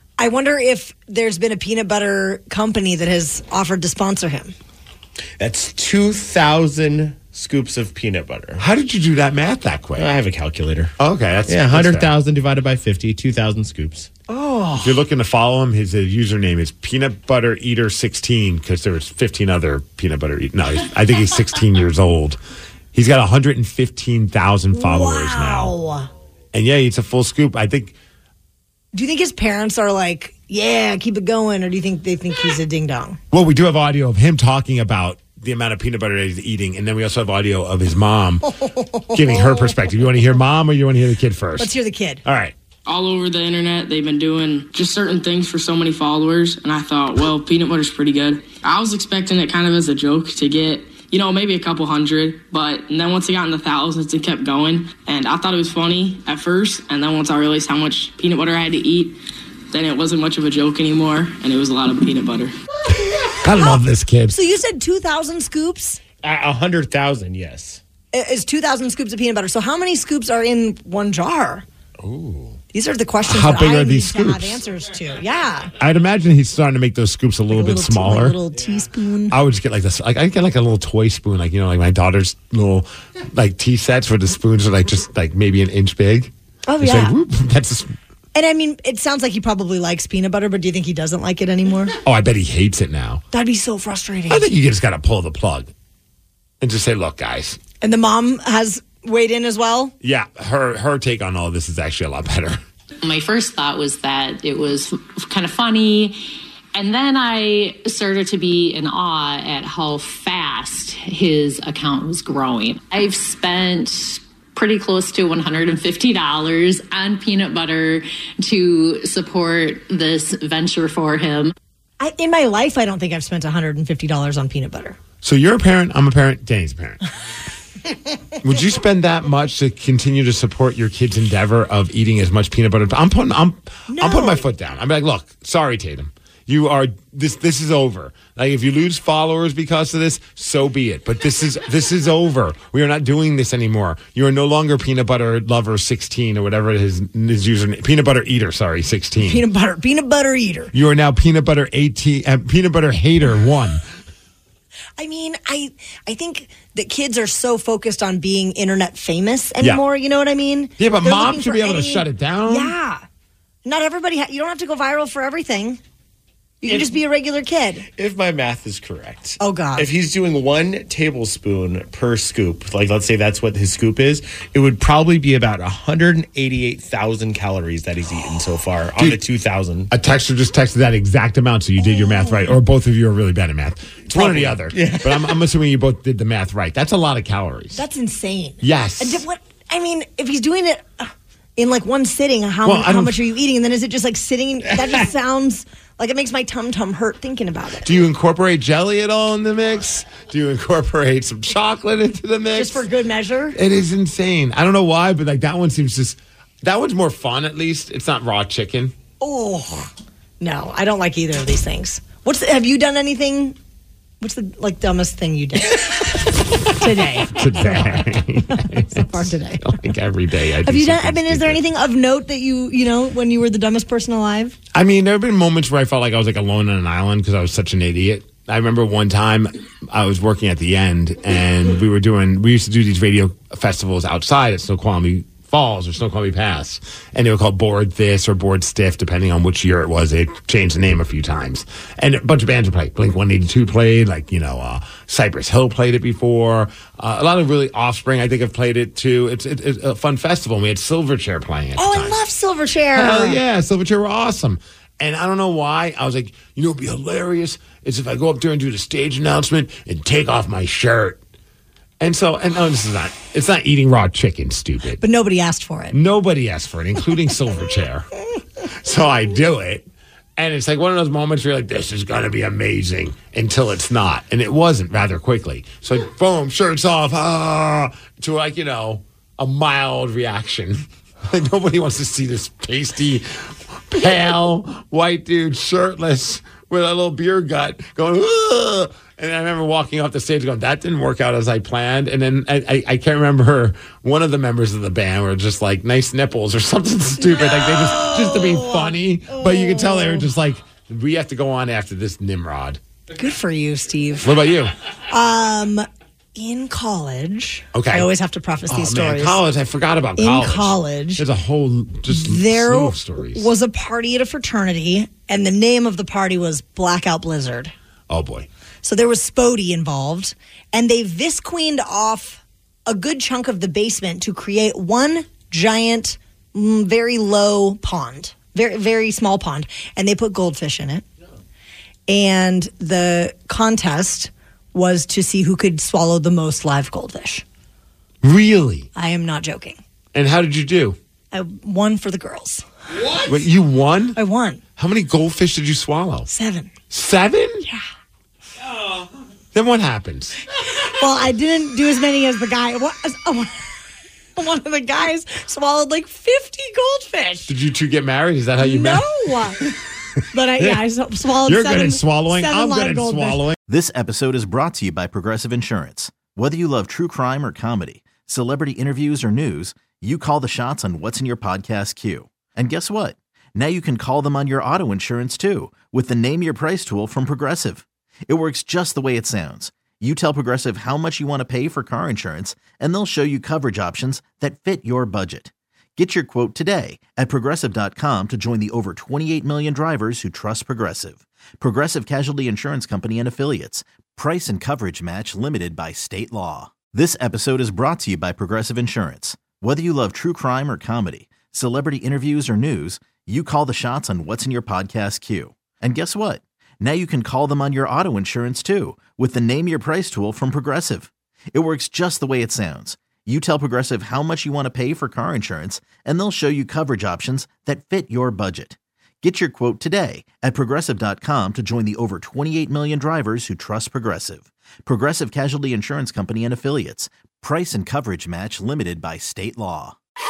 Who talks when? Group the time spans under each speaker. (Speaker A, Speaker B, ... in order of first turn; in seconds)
Speaker A: 0.2-4.5, 14.3-15.0, 24.7-26.1, 28.9-33.2, 38.6-39.8, 41.6-42.2, 63.5-63.8, 64.3-66.0, 68.1-71.7, 72.7-75.7, 77.5-79.4, 86.7-87.2, 88.3-92.0, 93.3-94.5, 97.8-99.9, 122.0-125.0, 133.9-134.5, 149.2-150.7, 155.0-163.0, 163.6-165.8, 166.6-167.8, 169.4-169.9, 181.8-182.5, 187.7-197.9, 202.5-203.6, 209.2-213.6, 214.2-219.7, 220.6-224.6, 251.8-253.4, 265.0-266.0, 297.2-300.3, 303.1-304.3, 305.1-309.4, 310.1-311.2, 312.1-317.7, 318.8-331.1, 332.1-337.4, 338.9-339.8, 341.3-342.6, 344.1-344.6, 346.3-346.7, 350.9-353.7, 354.4-357.5, 358.6-359.7, 360.3-363.4
Speaker B: 5.4-8.6, 9.9-10.9, 11.5-14.1, 66.2-67.8, 72.0-72.6, 166.7-166.9, 167.9-179.9, 184.1-185.3
Speaker C: 8.6-10.1, 11.0-12.1, 14.8-22.4, 22.9-25.7, 26.5-27.9, 33.3-38.5, 39.1-41.7, 42.2-42.5, 63.1-64.4, 73.2-74.6, 75.8-78.4, 79.3-87.9, 92.0-93.2, 94.3-95.7, 96.6-97.6, 100.0-102.6, 125.2-127.0, 128.4-149.4, 150.7-153.8, 160.8-162.7, 179.9-187.8, 188.6-189.2, 192.6-193.2, 197.8-202.8, 203.5-208.9, 217.1-221.6, 224.7-252.2, 252.9-261.2, 262.0-265.0, 265.9-268.1, 268.7-269.9, 270.4-302.8, 304.2-304.7, 307.7-308.1, 308.7-313.5, 318.1-318.5, 338.2-338.9, 340.1-341.0, 343.2-344.2, 344.8-346.3, 346.9-347.6, 349.5-350.4, 357.5-359.7, 361.4-363.6
Speaker D: 42.9-59.1, 59.7-62.5
Speaker E: 103.0-106.2, 106.7-121.5
Speaker F: 363.7-429.9